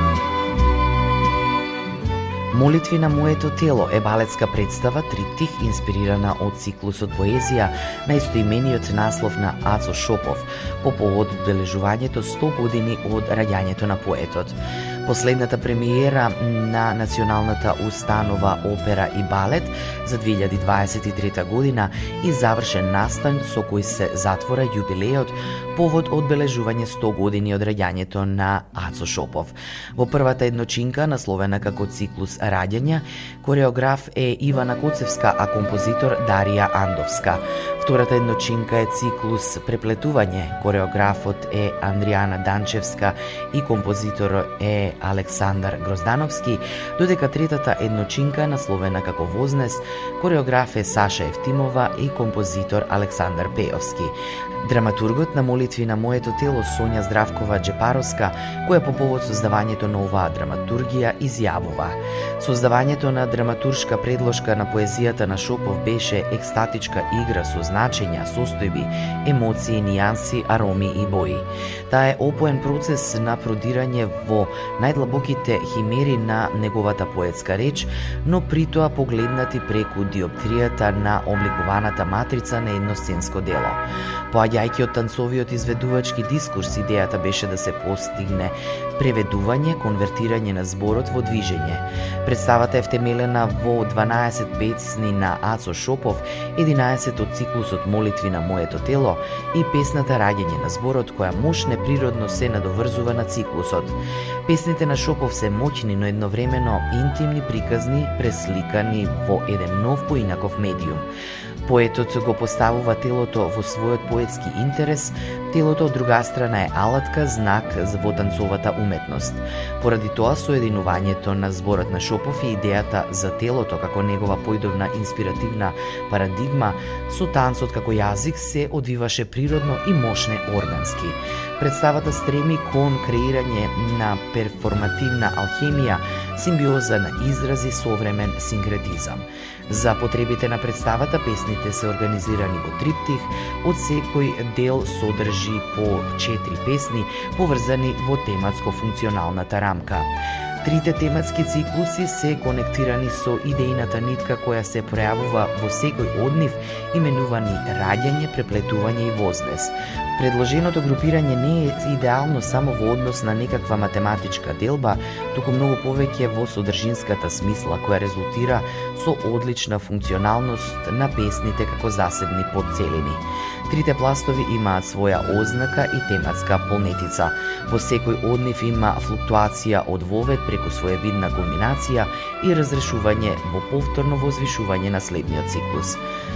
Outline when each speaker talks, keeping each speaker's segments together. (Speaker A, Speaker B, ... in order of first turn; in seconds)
Speaker A: 2.5-111.1, 111.7-186.0